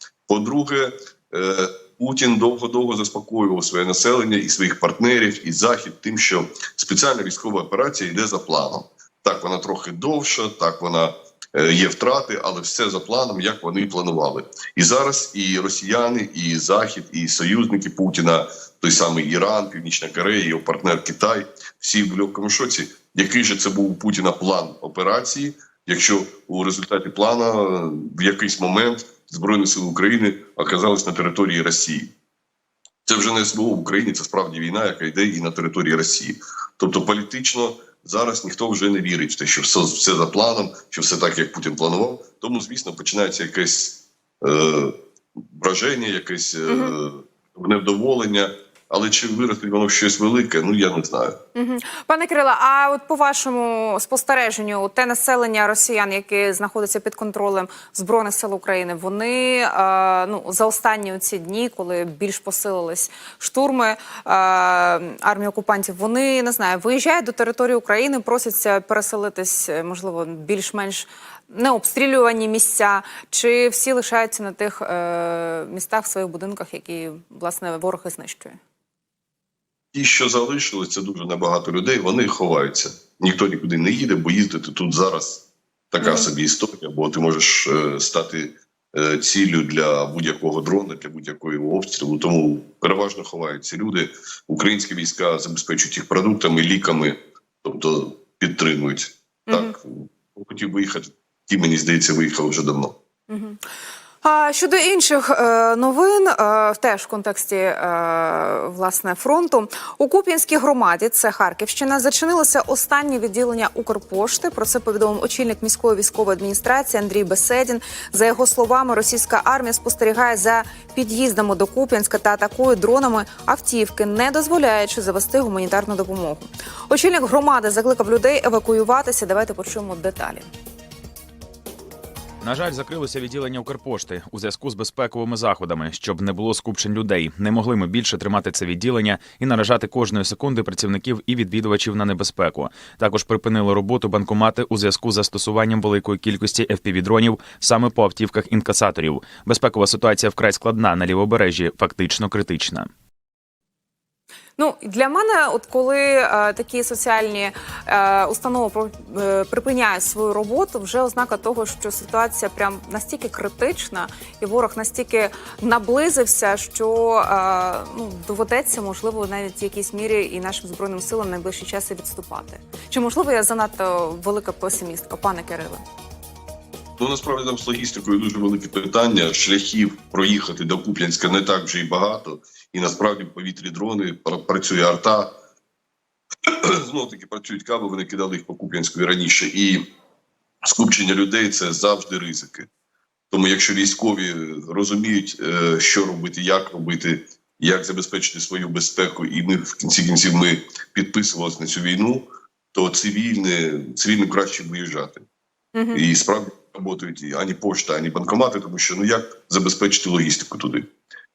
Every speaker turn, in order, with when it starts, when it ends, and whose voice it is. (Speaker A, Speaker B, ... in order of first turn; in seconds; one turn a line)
Speaker A: 0.3-32.1
Speaker A: 33.1-44.9
Speaker A: 45.5-51.4
Speaker B: 46.7-47.0
Speaker B: 51.5-78.6
Speaker A: 79.9-103.0
Speaker B: 86.0-86.3
Speaker B: 99.5-99.8
Speaker B: 103.3-103.6
Speaker B: 104.2-130.5
Speaker C: 132.4-152.9
Speaker B: 154.6-175.8
Speaker A: 177.0-185.3
Speaker A: 186.4-189.8
Speaker A: 190.6-192.7
Speaker A: 193.3-205.2
Speaker B: 205.8-206.0
Speaker A: 205.9-210.9